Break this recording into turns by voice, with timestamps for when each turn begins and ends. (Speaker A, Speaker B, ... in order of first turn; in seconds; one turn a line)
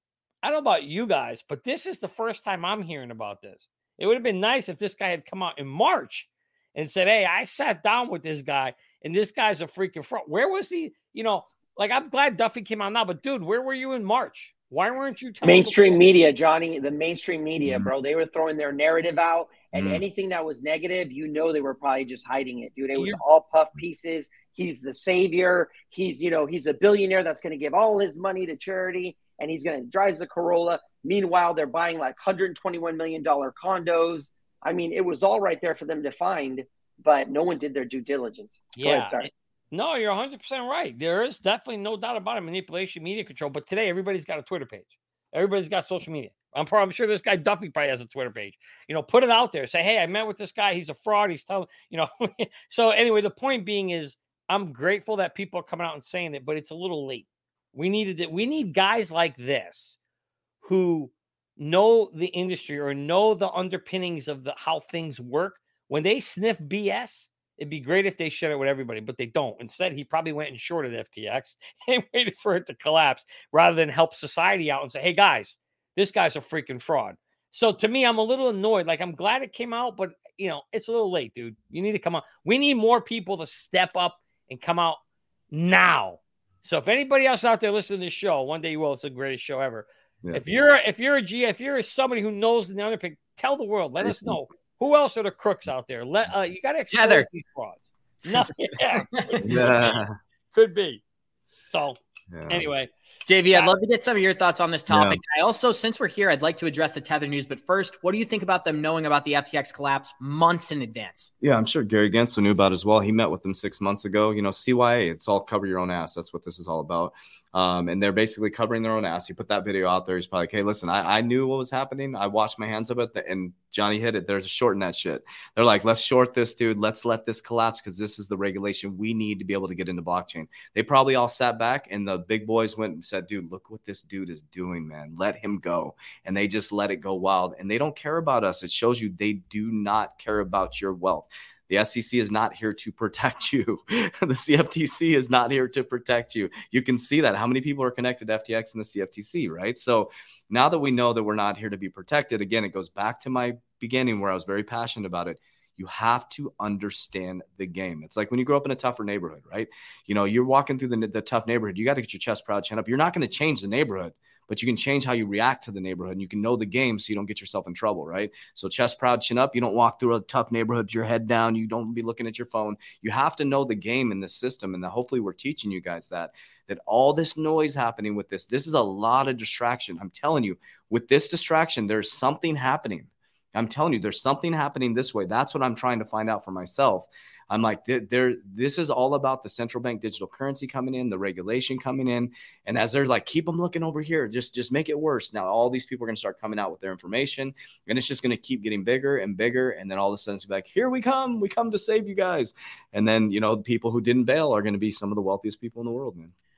Speaker A: 0.4-16.1
Speaker B: 15.4-39.3
Speaker C: 17.6-17.9
Speaker C: 19.8-20.0
Speaker A: 38.8-60.0
Speaker A: 60.6-85.0
Speaker A: 85.5-100.0
Speaker C: 94.0-94.4
Speaker D: 96.9-97.3
Speaker D: 98.9-99.4
Speaker C: 99.4-100.2
Speaker A: 100.5-101.0
Speaker A: 101.5-102.0
Speaker C: 102.3-102.7
Speaker A: 102.5-102.9
Speaker D: 103.3-111.3
Speaker A: 103.5-103.8
Speaker C: 104.9-105.2
Speaker C: 111.4-206.3